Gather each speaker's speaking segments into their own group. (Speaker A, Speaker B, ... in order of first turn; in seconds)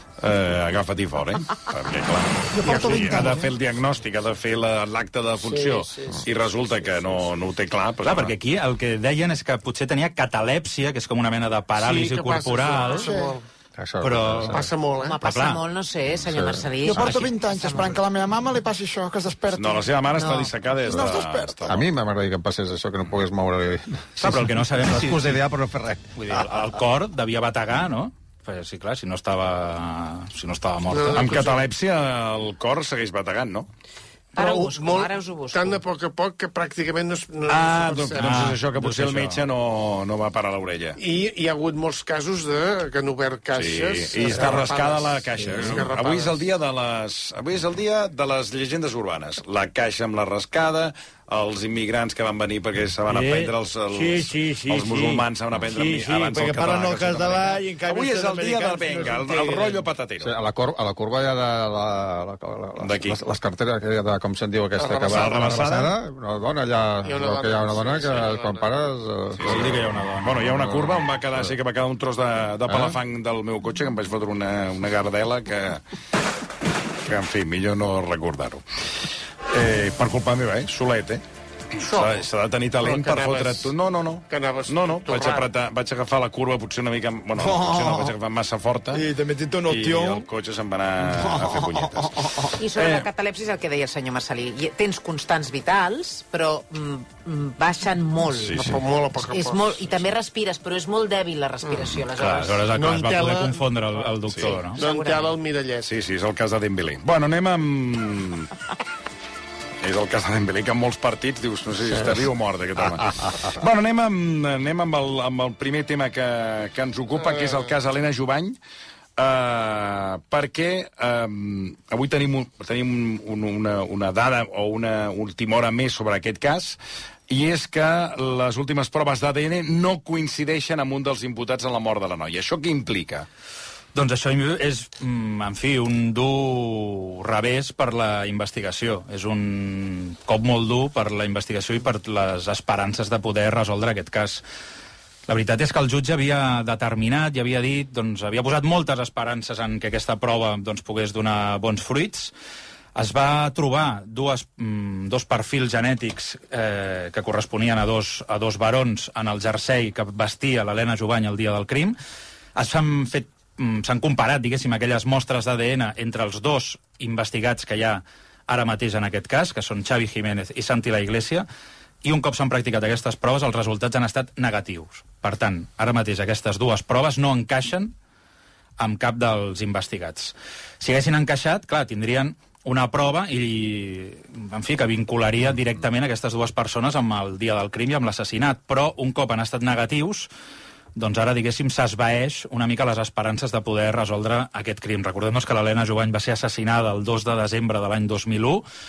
Speaker A: 0.2-8.3, 19.5-21.9, 31.1-33.7, 37.5-41.0, 43.5-60.3, 62.8-63.2, 65.1-66.0, 69.4-75.8, 77.0-81.2, 81.8-89.1, 89.7-93.1, 98.3-98.8, 105.8-108.5, 109.8-118.6, 119.2-126.8, 127.3-133.3
Speaker B: 2.5-3.4, 12.8-13.3, 16.9-19.9, 20.9-21.6
Speaker C: 2.6-3.3, 5.4-6.2, 11.8-13.4, 14.5-15.2, 30.9-31.7, 34.4-38.5, 41.0-46.4, 64.8-65.4, 67.0-68.9, 81.8-82.2, 82.8-83.7, 84.3-85.5, 98.5-100.0, 102.7-103.6, 104.4-105.9
Speaker D: 8.0-13.0, 14.0-14.6, 15.2-15.6, 24.2-25.4, 26.2-31.5, 38.2-39.4, 69.4-70.5, 102.2-104.8, 133.9-144.4, 145.3-152.3, 152.9-162.0, 162.6-171.5, 172.0-177.9, 178.8-190.3, 191.0-198.7
Speaker E: 13.8-14.7, 16.2-17.2, 20.9-26.5, 60.2-71.5, 72.7-73.0, 111.9-112.2, 112.8-113.5
Speaker F: 15.0-18.0, 20.1-20.5, 34.4-35.8, 92.6-98.6, 99.3-102.6, 104.8-105.3
Speaker G: 53.1-59.8, 89.0-90.2